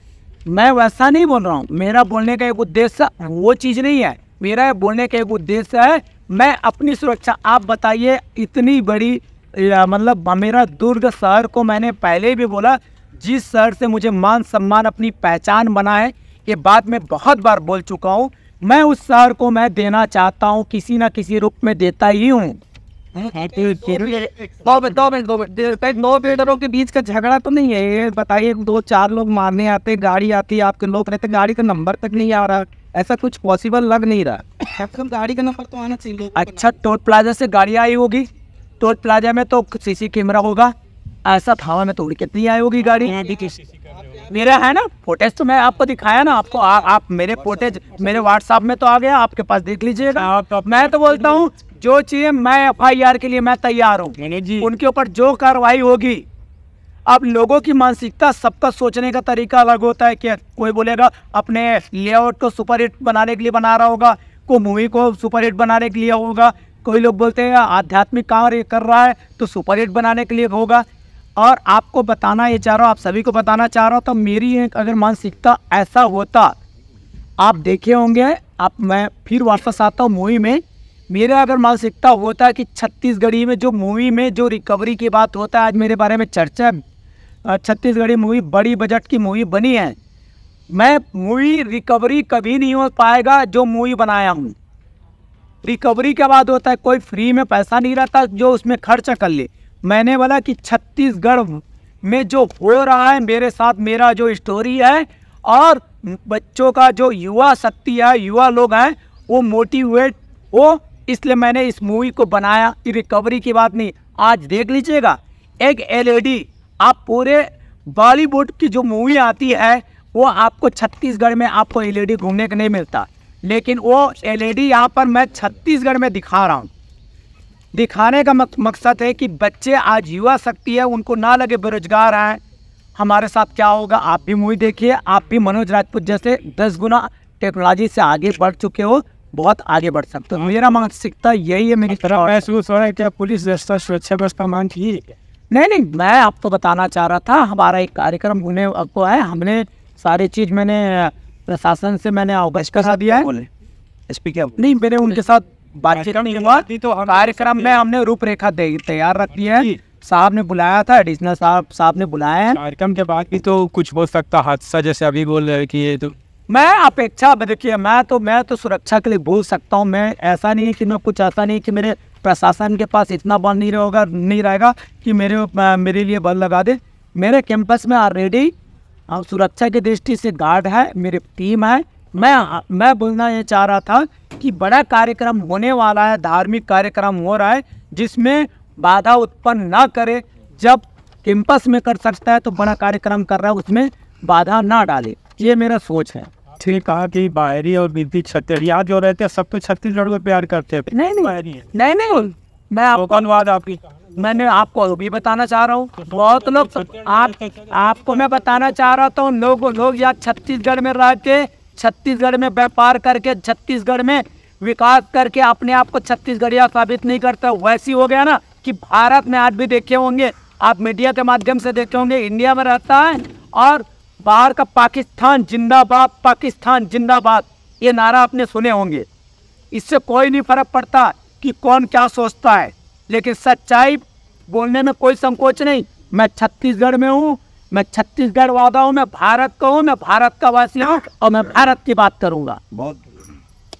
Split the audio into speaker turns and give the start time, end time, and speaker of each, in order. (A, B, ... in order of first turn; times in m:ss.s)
0:00.5-0:22.6 A
0:23.1-0:36.7 B
0:23.3-0:24.1 C
0:36.3-0:38.3 A
0:38.8-0:40.7 A
0:41.2-0:43.2 A
0:43.0-0:44.2 C
0:44.3-0:56.2 A
0:50.1-0:51.4 C
0:54.2-0:54.7 C
0:57.1-1:10.8 A
1:11.4-1:16.6 A
1:17.4-1:26.8 A
1:27.4-1:30.0 A
1:30.7-1:34.5 A
1:35.6-2:06.7 A
2:07.7-2:12.4 A
2:13.0-2:22.4 A
2:22.0-2:25.1 C
2:25.5-2:33.3 A
2:32.8-2:33.5 B
2:34.1-2:34.5 B
2:34.6-2:42.6 A
2:35.9-2:37.8 C
2:39.4-2:39.8 C
2:42.5-2:46.1 C
2:46.5-2:58.5 A
2:59.1-3:16.3 A
3:16.6-3:21.6 C
3:20.9-3:23.2 A
3:22.9-3:23.8 C
3:24.2-3:49.1 A
3:26.1-3:27.7 C
3:49.7-4:02.6 A